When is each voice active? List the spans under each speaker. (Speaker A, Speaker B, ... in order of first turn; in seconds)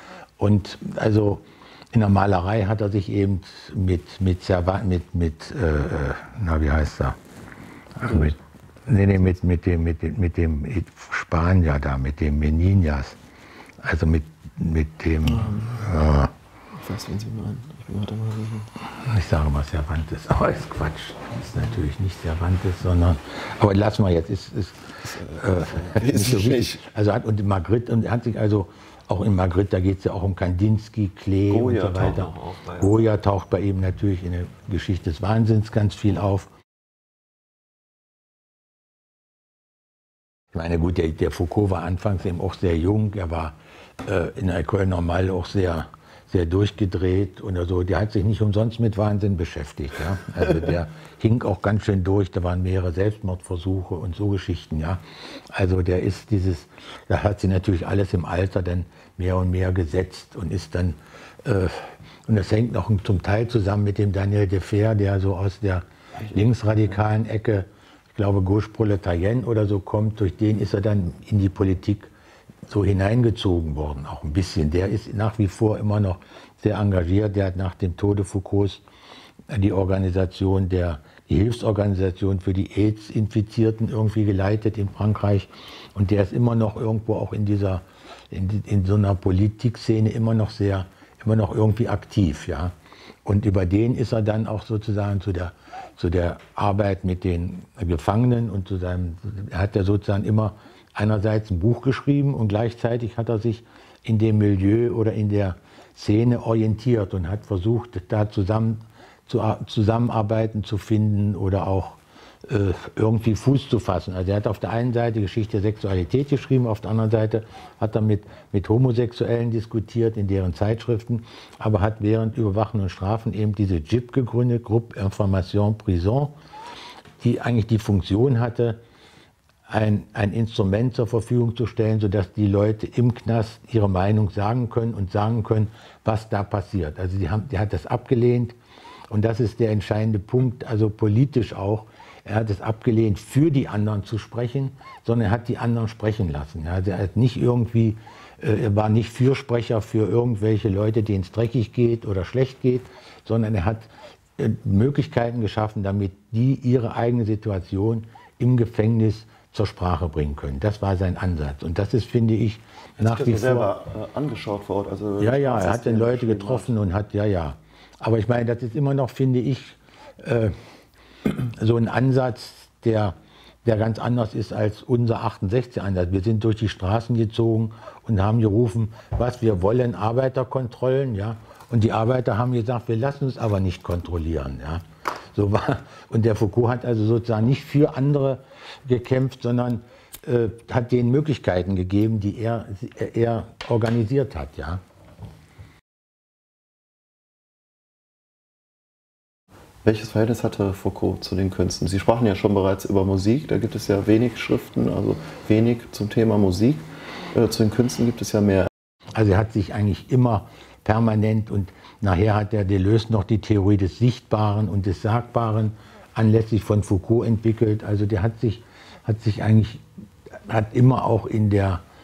Speaker A: 0.4-7.2, 8.0-13.2, 13.8-16.3, 19.0-36.5, 40.5-55.0, 55.5-72.1, 72.7-78.8, 79.5-92.7, 93.2-126.3, 127.2-128.8, 129.7-138.6, 139.1-163.7, 165.2-170.6, 171.3-194.8, 209.2-219.8, 220.5-221.8
Speaker B: 8.1-8.3, 15.3-15.8, 16.8-18.7, 25.0-26.8, 31.5-33.0, 163.0-166.7, 199.8-208.7